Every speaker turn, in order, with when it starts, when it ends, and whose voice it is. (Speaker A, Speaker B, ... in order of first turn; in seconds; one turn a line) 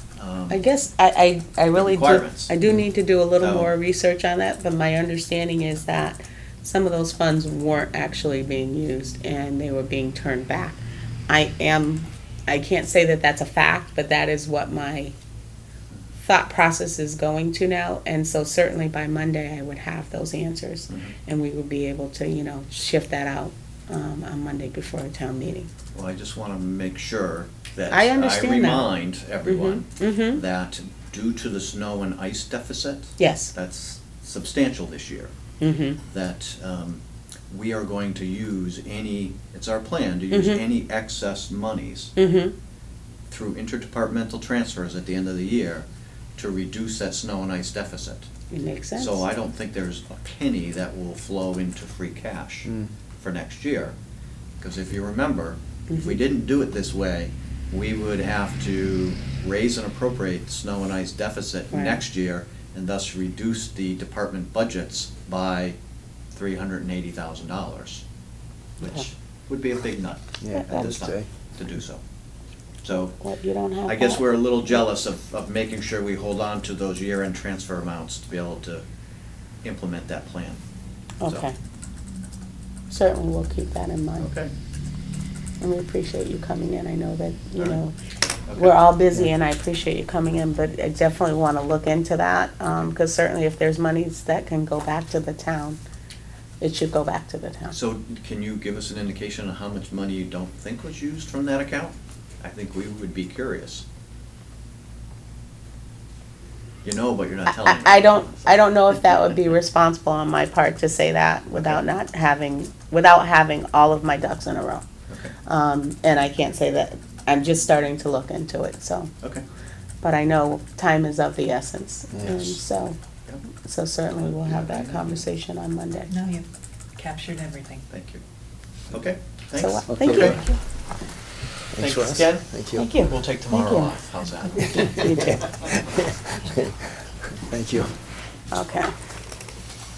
Speaker A: 0.2-0.6
Speaker B: 0.5-15.1
Speaker A: 1.8-2.5
Speaker A: 3.4-3.7
Speaker B: 16.2-25.7
Speaker A: 20.9-21.2
Speaker A: 25.9-35.3
Speaker B: 27.9-28.9
Speaker B: 29.4-30.4
Speaker B: 33.2-33.5
Speaker B: 35.6-36.0
Speaker A: 36.1-42.1
Speaker B: 40.3-40.6
Speaker B: 42.2-42.5
Speaker A: 43.3-45.9
Speaker A: 46.4-48.3
Speaker B: 48.5-49.3
Speaker A: 49.0-54.0
Speaker A: 54.6-65.8
Speaker B: 55.9-56.2
Speaker B: 61.7-62.0
Speaker A: 66.3-68.0
Speaker A: 68.8-72.0
Speaker C: 70.4-71.3
Speaker B: 70.5-71.0
Speaker A: 72.8-73.2
Speaker B: 73.2-74.8
Speaker A: 73.9-78.8
Speaker A: 79.6-80.6
Speaker B: 81.2-81.5
Speaker B: 82.9-84.3
Speaker A: 84.2-84.5
Speaker B: 85.6-88.0
Speaker A: 88.5-88.8
Speaker B: 88.6-95.8
Speaker B: 96.6-97.8
Speaker A: 97.7-103.8
Speaker A: 106.8-109.0
Speaker B: 107.5-114.8
Speaker A: 111.5-111.8
Speaker A: 115.1-115.3
Speaker B: 115.5-119.1
Speaker B: 120.0-123.0
Speaker C: 122.1-122.6
Speaker B: 123.6-126.1
Speaker A: 124.5-125.2
Speaker D: 126.1-127.8
Speaker A: 127.9-128.2
Speaker A: 128.9-130.4
Speaker B: 129.6-130.4
Speaker C: 129.9-130.5
Speaker D: 130.3-130.6
Speaker C: 131.7-132.9
Speaker A: 131.8-135.3
Speaker B: 132.8-133.9
Speaker B: 134.6-135.5
Speaker C: 135.0-137.9
Speaker B: 138.5-138.9